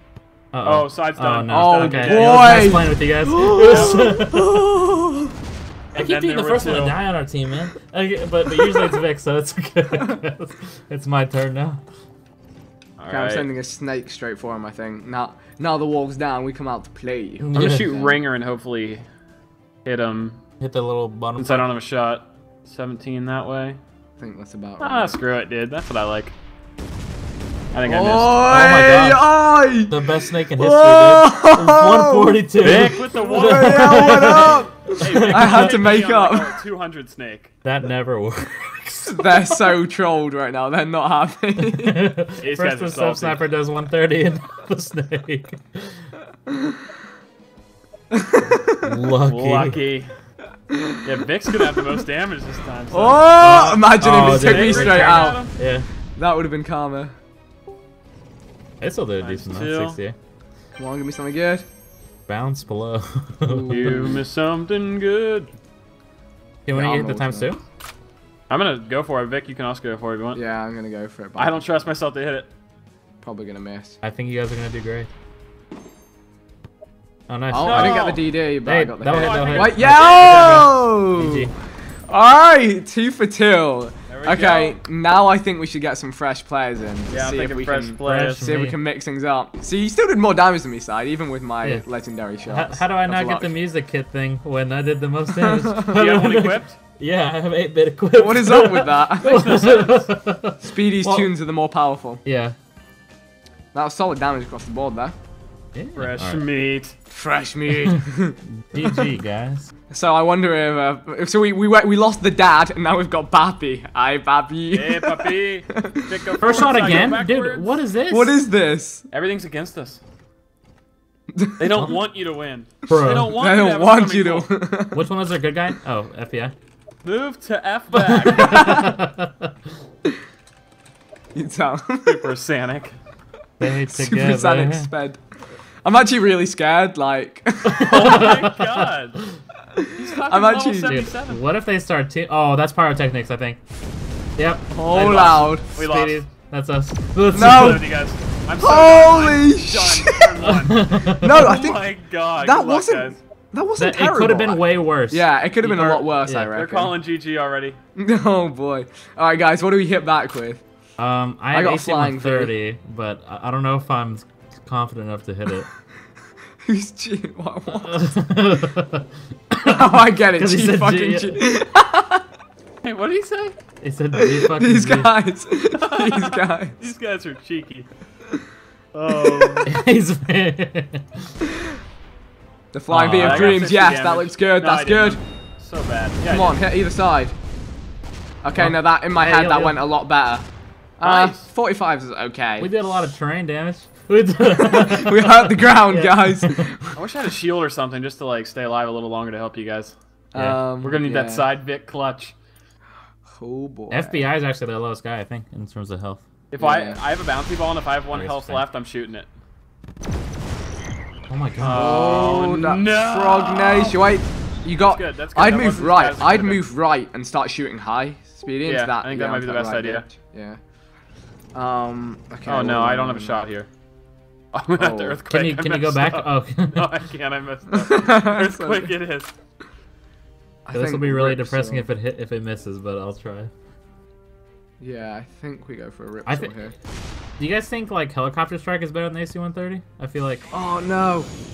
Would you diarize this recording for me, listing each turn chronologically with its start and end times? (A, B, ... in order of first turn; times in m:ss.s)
0:00.5-0:04.7 A
0:00.6-0:02.7 B
0:01.5-0:05.3 C
0:03.6-0:04.1 B
0:05.9-0:07.0 B
0:06.0-0:11.8 A
0:13.0-0:13.5 B
0:13.1-0:18.2 C
0:17.4-0:17.9 A
0:17.5-0:19.0 B
0:19.8-0:20.4 B
0:20.6-0:21.7 A
0:21.4-0:23.8 B
0:24.2-0:25.2 C
0:24.8-0:26.3 B
0:27.7-0:28.4 B
0:27.8-0:36.6 C
0:28.4-0:35.8 A
0:32.6-0:37.5 B
0:37.6-0:39.5 A
0:39.1-0:42.2 C
0:41.6-0:46.0 A
0:42.4-0:43.4 B
0:46.5-0:46.8 C
0:48.1-0:49.0 C
0:48.4-0:49.8 A
0:49.3-0:50.1 B
0:50.7-0:51.1 C
0:51.0-0:55.5 B
0:52.9-0:55.5 C
0:53.4-0:55.9 A
0:56.2-0:57.1 C
0:58.8-1:00.2 A
0:59.2-1:00.0 B
1:00.8-1:01.6 C
1:02.3-1:04.0 A
1:03.4-1:04.2 C
1:03.7-1:05.5 B
1:06.7-1:07.6 A
1:06.7-1:07.5 C
1:08.5-1:10.4 B
1:10.4-1:11.6 C
1:11.4-1:12.5 B
1:13.2-1:14.0 C
1:14.0-1:15.1 A
1:17.3-1:21.5 A
1:17.5-1:21.5 C
1:17.6-1:18.2 B
1:19.1-1:20.7 B
1:22.1-1:33.5 C
1:24.1-1:24.8 B
1:27.1-1:28.4 B
1:28.0-1:28.8 A
1:32.5-1:41.3 A
1:35.4-1:36.0 C
1:35.9-1:36.8 B
1:38.1-1:39.5 C
1:39.2-1:40.1 B
1:40.6-1:42.2 C
1:42.2-1:42.6 A
1:43.7-1:45.2 C
1:45.7-1:46.4 A
1:46.0-1:46.9 B
1:47.1-1:49.0 C
1:47.7-1:48.0 A
1:48.7-1:49.7 A
1:49.9-1:57.1 C
1:54.7-1:57.7 B
1:56.4-1:58.4 A
1:58.1-1:59.0 C
1:59.1-2:00.0 B
2:01.3-2:01.9 C
2:01.6-2:04.5 B
2:02.9-2:03.3 A
2:03.2-2:05.1 C
2:04.9-2:06.5 A
2:07.0-2:08.9 B
2:08.0-2:09.5 A
2:08.2-2:09.0 C
2:11.4-2:12.3 C
2:12.0-2:13.0 B
2:13.6-2:14.9 A
2:13.9-2:15.2 C
2:15.8-2:18.3 C
2:17.6-2:19.4 A
2:17.8-2:19.2 B
2:19.7-2:21.0 C
2:20.0-2:21.4 B
2:20.8-2:23.6 A
2:24.4-2:27.8 A
2:24.8-2:25.6 C
2:24.9-2:26.2 B
2:27.3-2:27.9 C
2:27.4-2:33.2 B
2:28.6-2:30.5 C
2:30.4-2:31.6 A
2:31.1-2:37.0 C
2:33.8-2:36.5 A
2:36.5-2:37.8 B
2:38.0-2:40.6 C
2:41.0-2:45.7 A
2:41.5-2:42.5 C
2:46.6-2:48.0 C
2:47.8-2:51.4 A
2:49.6-2:52.2 C
2:52.8-2:53.6 B
2:53.8-2:55.1 A
2:54.1-2:56.8 C
2:55.8-2:57.9 B
2:58.9-2:59.7 B
2:59.1-2:59.6 C
2:59.7-3:01.3 A
3:02.7-3:05.2 C
3:02.9-3:03.7 A
3:03.1-3:06.6 B
3:06.2-3:07.3 C
3:08.4-3:10.5 C
3:08.6-3:09.8 A
3:11.0-3:12.7 C
3:11.0-3:11.5 B
3:12.6-3:16.7 A
3:14.5-3:17.0 C
3:17.0-3:20.0 B
3:20.3-3:21.5 C
3:20.8-3:22.4 B
3:23.4-3:24.2 C
3:23.9-3:26.2 A
3:26.5-3:29.3 B
3:26.6-3:27.0 C
3:28.1-3:28.6 A
3:31.3-3:32.2 A
3:31.6-3:34.0 B
3:31.7-3:40.6 C
3:34.8-3:36.6 B
3:38.6-3:40.0 B
3:41.6-3:43.4 C
3:42.4-3:43.7 B
3:44.5-3:49.3 B
3:44.8-3:45.2 C
3:45.3-3:47.0 A
3:47.7-3:48.9 C
3:50.7-3:51.8 C
3:50.7-3:53.5 A
3:54.8-3:56.7 C
3:56.3-3:56.6 A
3:57.4-4:00.5 A
4:00.5-4:01.3 C